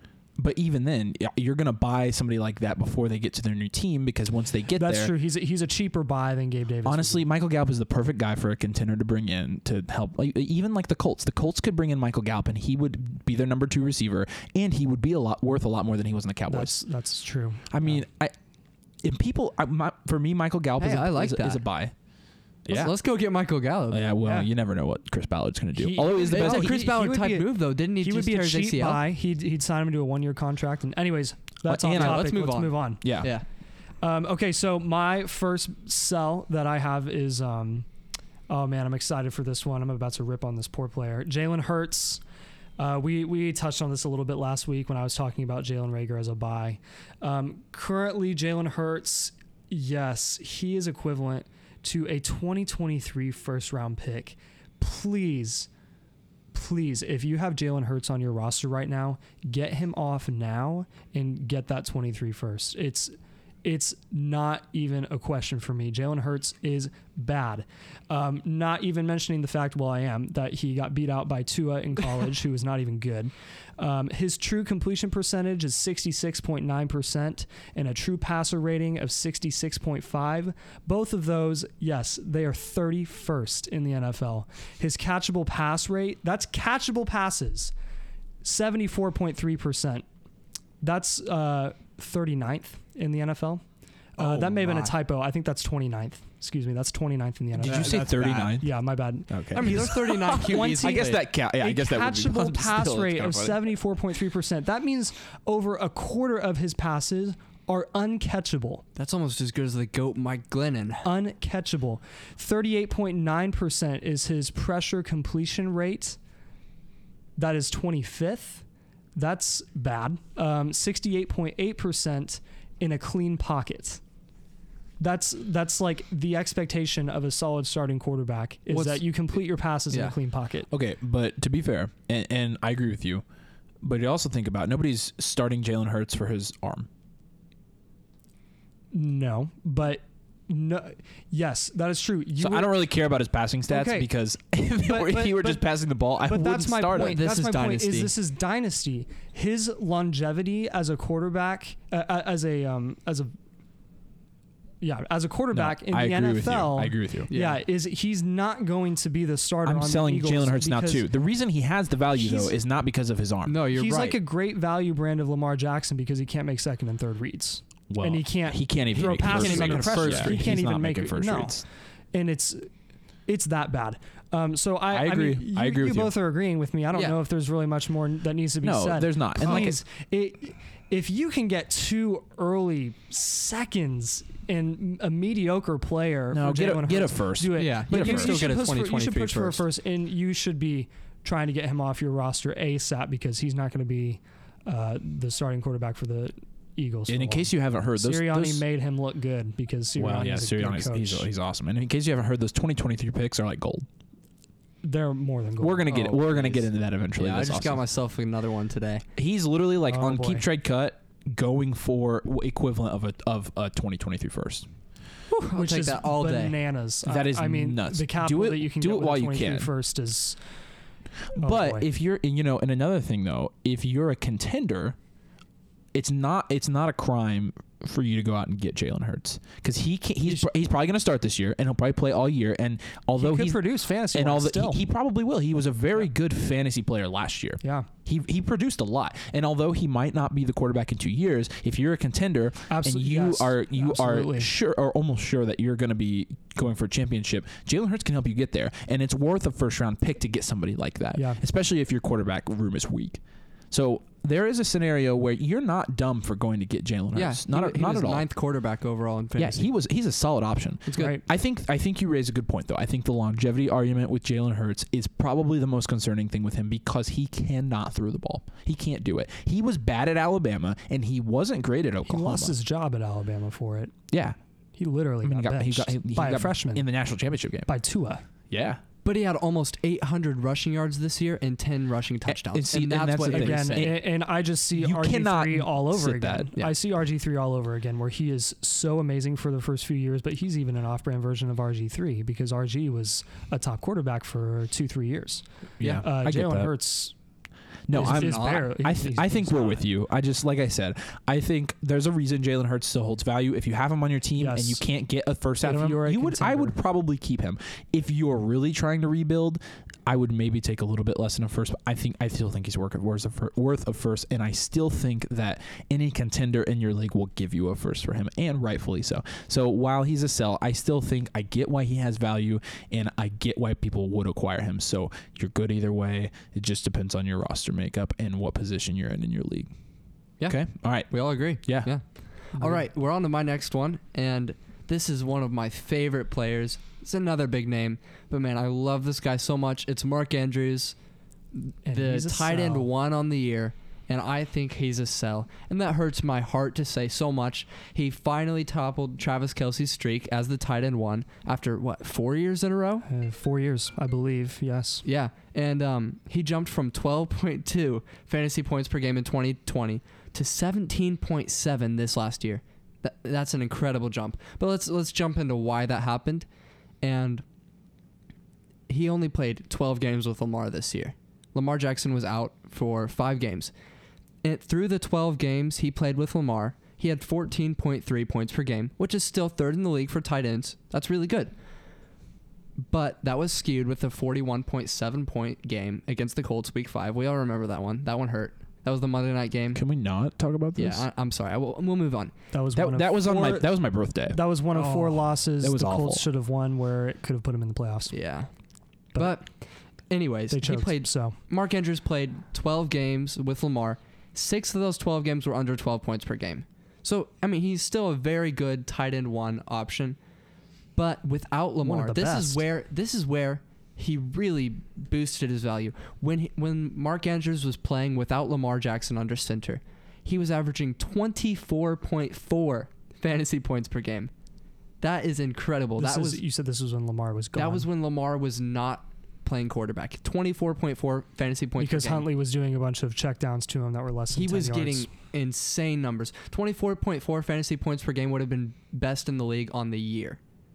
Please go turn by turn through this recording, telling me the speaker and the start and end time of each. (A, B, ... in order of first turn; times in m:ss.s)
0:00.4-0:05.1 A
0:04.7-0:07.2 B
0:06.8-0:16.8 A
0:16.5-0:18.0 B
0:17.7-0:18.3 A
0:19.0-0:21.9 A
0:20.8-0:21.6 C
0:22.6-0:22.9 A
0:22.7-0:24.1 C
0:23.9-0:26.8 A
0:24.2-0:24.5 B
0:25.7-0:33.0 B
0:26.2-0:29.0 C
0:31.6-0:32.3 A
0:31.9-0:33.4 C
0:33.0-0:33.3 A
0:34.0-0:37.9 B
0:38.5-0:42.2 B
0:42.8-0:55.7 B
0:56.5-1:27.7 B
1:28.4-1:30.0 B
1:30.8-1:33.6 B
1:34.2-1:48.8 B
1:34.2-1:34.9 C
1:37.6-1:38.7 A
1:37.6-1:38.5 C
1:39.3-1:43.6 A
1:39.5-1:41.2 C
1:49.0-1:51.1 C
1:51.0-1:56.2 B
1:57.4-1:58.6 B
1:59.2-2:04.0 B
2:05.0-2:10.7 B
2:08.7-2:09.0 C
2:10.7-2:13.2 A
2:13.8-2:16.9 A
2:18.9-2:22.9 B
2:22.4-2:27.2 A
2:23.7-2:24.1 B
2:24.8-2:25.6 B
2:26.2-2:33.3 B
2:26.9-2:28.1 C
2:34.8-2:41.0 B
2:35.5-2:37.3 A
2:37.3-2:37.6 C
2:39.6-2:43.6 A
2:42.2-2:42.5 B
2:43.4-2:44.2 C
2:43.7-2:52.7 B
2:47.9-2:51.6 A
2:49.0-2:50.5 C
2:53.3-3:21.3 B
2:54.9-2:56.1 A
2:56.9-2:57.2 C
2:58.6-2:59.8 A
3:06.3-3:08.6 A
3:07.6-3:09.6 C
3:17.1-3:18.6 A
3:20.0-3:23.9 A
3:24.8-3:25.9 B
3:25.6-3:27.8 A
3:25.9-3:29.0 C
3:29.2-3:34.7 A
3:29.8-3:30.4 B
3:35.3-3:36.6 C
3:35.5-3:40.4 B
3:37.0-3:39.7 A
3:41.3-3:45.0 A
3:41.4-3:41.9 B
3:45.9-4:18.2 A
3:53.2-3:54.8 B
3:57.6-3:57.9 B
4:02.7-4:04.5 B
4:11.1-4:11.4 B
4:17.1-4:19.7 C
4:19.4-4:32.5 A
4:20.8-4:21.2 C
4:21.0-4:21.2 B
4:32.0-4:33.9 B
4:34.1-4:34.4 A
4:34.8-4:36.8 B
4:35.2-4:37.7 A
4:37.7-4:38.2 B
4:38.5-4:38.8 A
4:39.0-4:43.9 C
4:42.3-4:44.0 A
4:43.3-4:55.5 B
4:44.8-4:46.5 A
4:55.8-4:56.7 A
4:56.0-4:57.1 B
4:57.9-5:29.7 A
4:57.9-4:59.8 B
4:57.9-4:58.8 C
5:04.4-5:04.8 B
5:05.6-5:06.8 B
5:30.5-5:31.9 A
5:31.1-5:40.9 C
5:32.6-5:32.8 B
5:41.5-5:53.0 C
5:41.8-5:42.9 B
5:53.1-5:55.0 B
5:55.0-6:06.4 C
6:07.0-6:07.4 C
6:08.9-6:13.7 C
6:14.4-6:21.5 C
6:22.8-6:29.8 C
6:29.7-6:31.0 A
6:30.8-6:32.3 C
6:32.5-6:33.7 B
6:32.7-6:34.4 A
6:34.3-6:38.2 B
6:34.8-6:35.0 C
6:35.6-6:36.2 A
6:38.1-6:38.5 C
6:39.1-6:39.5 C
6:40.1-6:50.2 C
6:40.5-6:41.4 B
6:50.9-7:04.3 C
6:51.8-6:52.6 B
7:05.0-7:06.4 C
7:06.0-7:07.9 B
7:07.6-7:12.3 C
7:11.8-7:15.1 B
7:14.3-7:20.4 C